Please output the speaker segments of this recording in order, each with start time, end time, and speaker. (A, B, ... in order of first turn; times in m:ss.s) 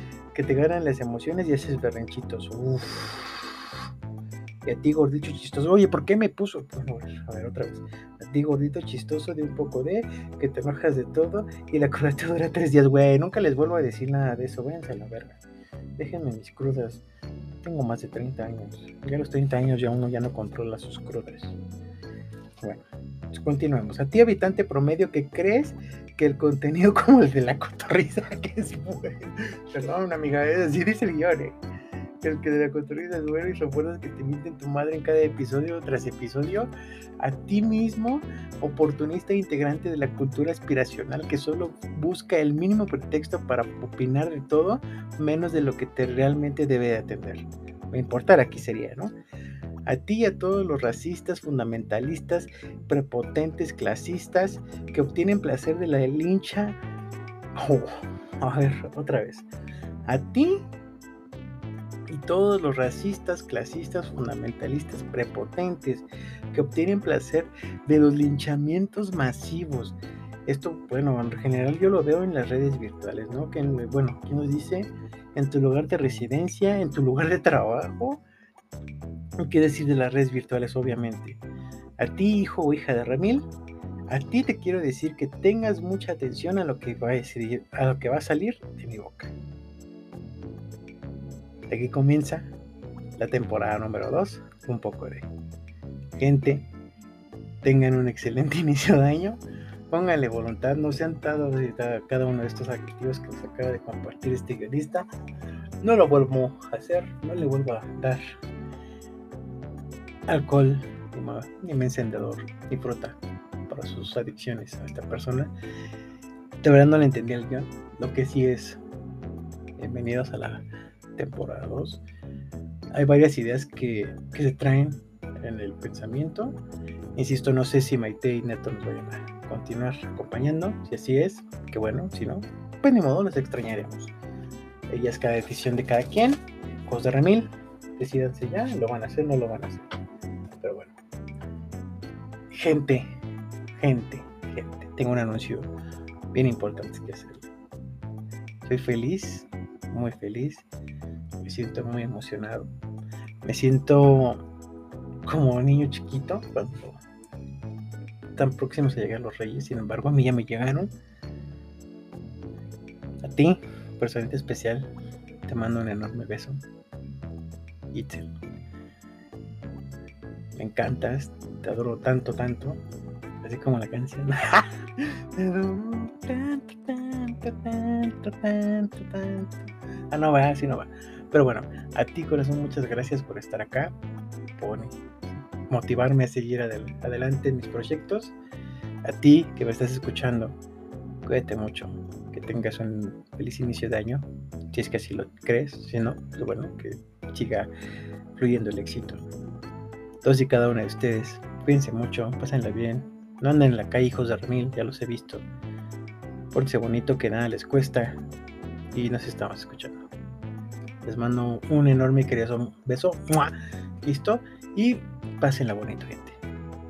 0:00.3-0:03.7 A
0:04.7-0:15.4 A
0:16.0-0:17.0 A
0:17.6-0:21.6 A
0:22.6-0:31.6 A
0:32.2-0:49.1 A
0:49.9-0:56.8 A
0:57.6-0:59.5 A
1:00.1-1:00.7 A
1:02.1-1:18.2 A
1:19.4-1:21.4 A
1:22.0-1:23.5 A
1:24.1-1:29.3 A
1:31.7-1:32.5 A
1:33.2-1:35.3 A
1:36.2-1:36.7 A
1:37.6-1:45.1 A
1:45.8-1:48.3 A
1:50.3-1:55.5 A
1:56.6-1:58.8 A
1:59.8-2:02.0 A
2:02.9-2:06.6 A
2:07.2-2:14.1 A
2:14.9-2:19.9 A
2:20.6-2:21.0 A
2:22.5-2:23.2 A
2:23.8-2:25.7 A
2:26.3-2:27.5 A
2:28.6-2:30.6 A
2:31.4-2:32.7 A
2:33.4-2:34.4 A
2:35.3-2:37.0 A
2:38.4-2:40.9 A
2:43.2-2:44.9 A
2:45.5-2:46.6 A
2:47.9-2:48.3 A
2:50.6-2:52.8 A
2:53.4-3:04.0 A
3:04.6-3:05.0 A
3:05.7-3:08.4 A
3:09.0-3:10.6 A
3:11.2-3:17.7 A
3:18.4-3:19.2 A
3:20.2-3:25.5 A
3:26.5-3:28.2 A
3:28.9-3:30.0 A
3:31.0-3:36.4 A